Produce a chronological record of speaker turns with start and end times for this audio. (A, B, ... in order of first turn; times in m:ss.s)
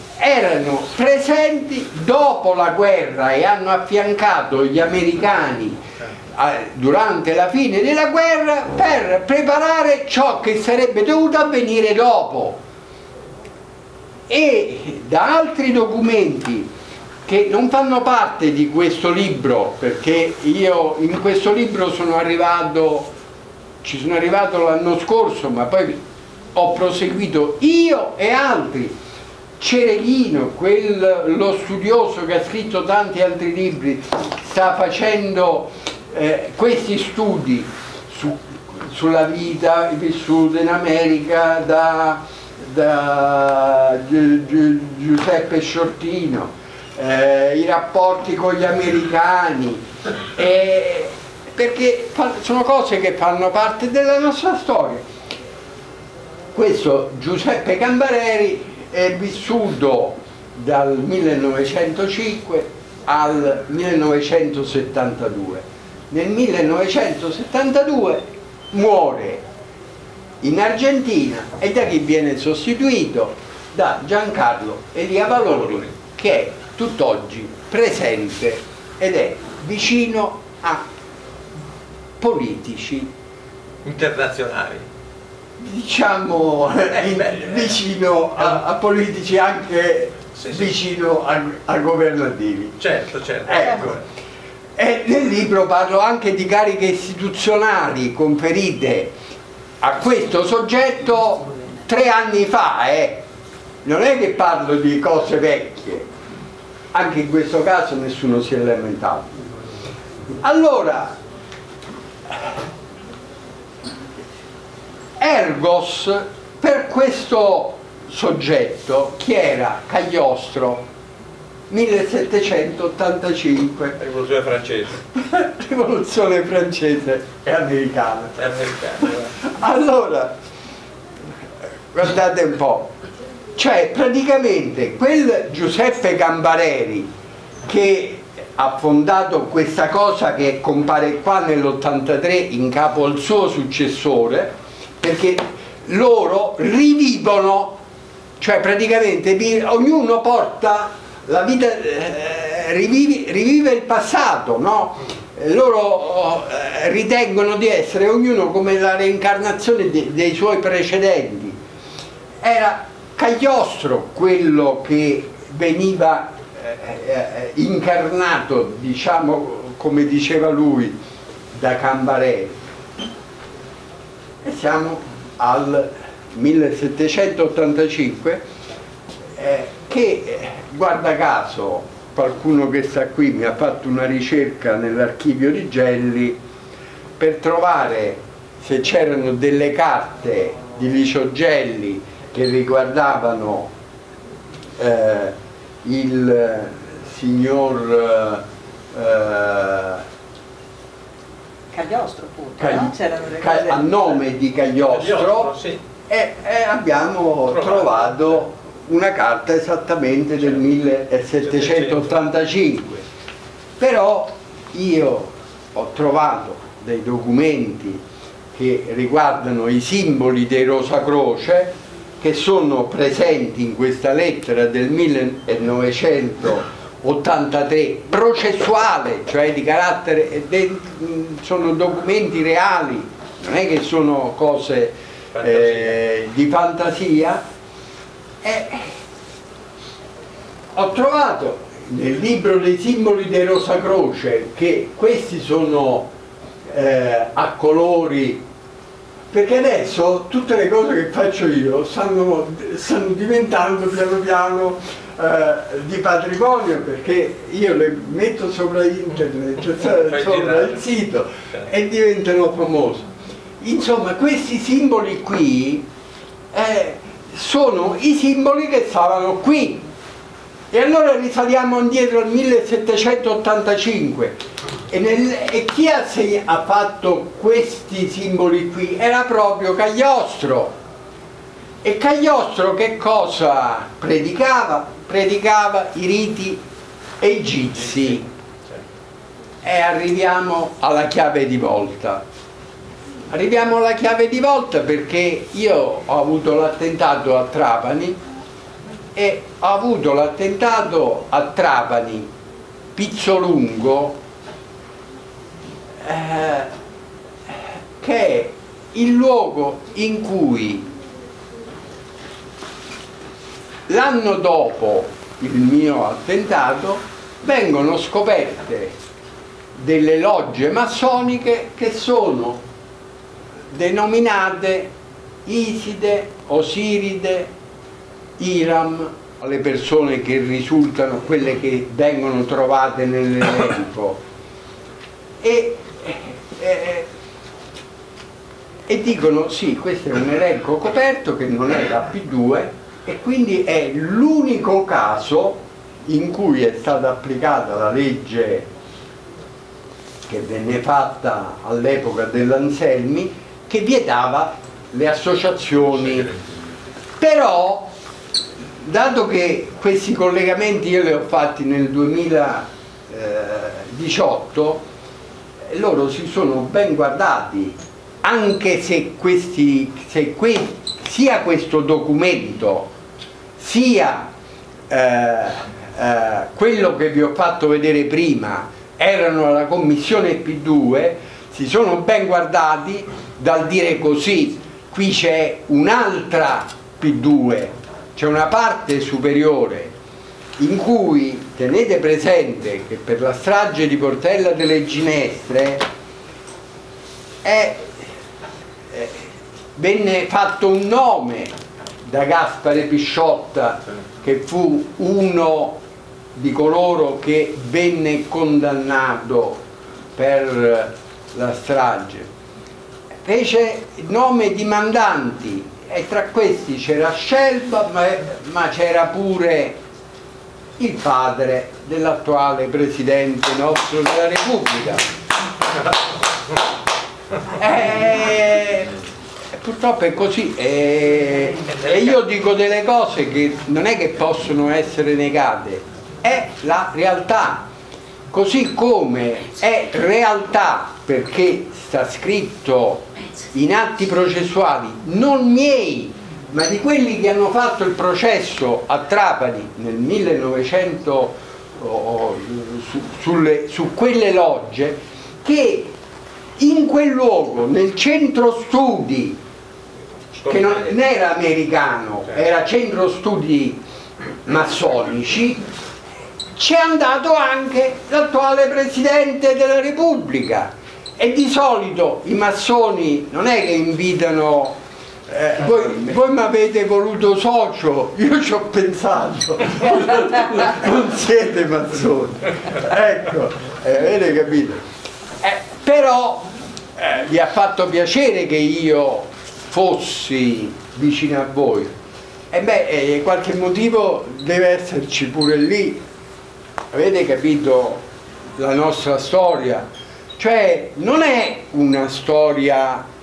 0:00.2-0:05.8 A
0:06.3-0:12.6 A
0:14.3-0:16.7 A
0:17.3-0:23.1 A
0:23.8-0:26.0 A
0:26.6-0:29.0 A
0:29.6-0:55.1 A
0:56.5-1:09.4 A
1:10.4-1:20.8 A
1:22.2-1:23.1 A
1:23.8-1:24.9 B
1:25.6-1:32.8 A
1:27.1-1:27.6 B
1:30.4-1:30.7 B
1:32.8-1:34.0 B
1:33.4-1:34.0 A
1:34.8-1:39.2 A
1:39.8-1:43.2 A
1:43.8-1:46.1 A
1:46.9-1:49.4 A
1:50.3-1:51.2 A
1:55.2-2:00.9 A
2:01.7-2:04.0 A
2:04.0-2:05.0 B
2:05.2-2:08.5 A
2:08.4-2:09.3 B
2:09.4-2:10.4 A
2:11.9-2:13.0 A
2:13.6-2:17.1 A
2:17.7-2:27.8 A
2:28.4-2:41.6 A
2:42.4-2:51.0 A
2:51.5-2:52.6 A
2:54.4-2:58.4 A
2:59.4-3:06.4 A
3:07.2-3:13.7 A
3:14.8-3:20.0 A
3:21.7-3:24.0 C
3:22.6-3:25.5 A
3:24.8-3:25.8 B
3:26.1-3:33.0 A
3:31.6-3:32.0 B
3:33.8-3:38.0 A
3:38.5-3:57.4 A
3:55.4-3:55.7 B
3:58.4-3:59.0 A
4:00.7-4:06.1 A
4:06.7-4:08.4 A
4:09.3-4:23.1 A
4:20.1-4:20.7 B
4:23.6-4:25.9 A
4:26.5-4:29.8 A
4:30.7-4:34.4 A
4:34.9-4:40.8 A
4:41.8-4:46.6 A
4:47.2-4:48.3 A
4:49.6-4:52.2 A
4:53.3-4:58.2 A
4:59.2-5:02.3 A
5:03.0-5:04.2 A
5:06.0-5:06.7 A
5:07.5-5:10.9 A
5:13.9-5:19.0 A
5:19.8-5:22.6 A
5:23.7-5:24.9 A
5:25.5-5:27.5 A
5:28.4-5:34.2 A
5:35.4-5:37.1 A
5:38.9-5:48.7 A
5:50.3-5:56.4 A
5:57.2-5:57.9 A
5:58.8-6:04.9 A
6:05.7-6:12.9 A
6:13.6-6:14.3 A
6:14.9-6:29.9 A
6:30.6-6:35.9 A
6:37.4-6:38.1 A
6:38.9-6:41.5 A
6:42.0-6:45.8 A
6:46.4-6:49.6 A
6:50.2-6:52.3 A
6:53.2-6:59.8 A
7:00.8-7:05.1 A
7:07.6-7:09.0 A
7:09.5-7:17.7 A
7:18.3-7:36.0 A
7:36.6-7:39.4 A
7:40.4-7:43.8 A
7:44.4-7:45.7 A
7:46.5-8:04.8 A
8:05.4-8:11.9 A
8:12.5-8:16.0 A
8:16.9-8:18.0 A
8:18.6-8:23.1 A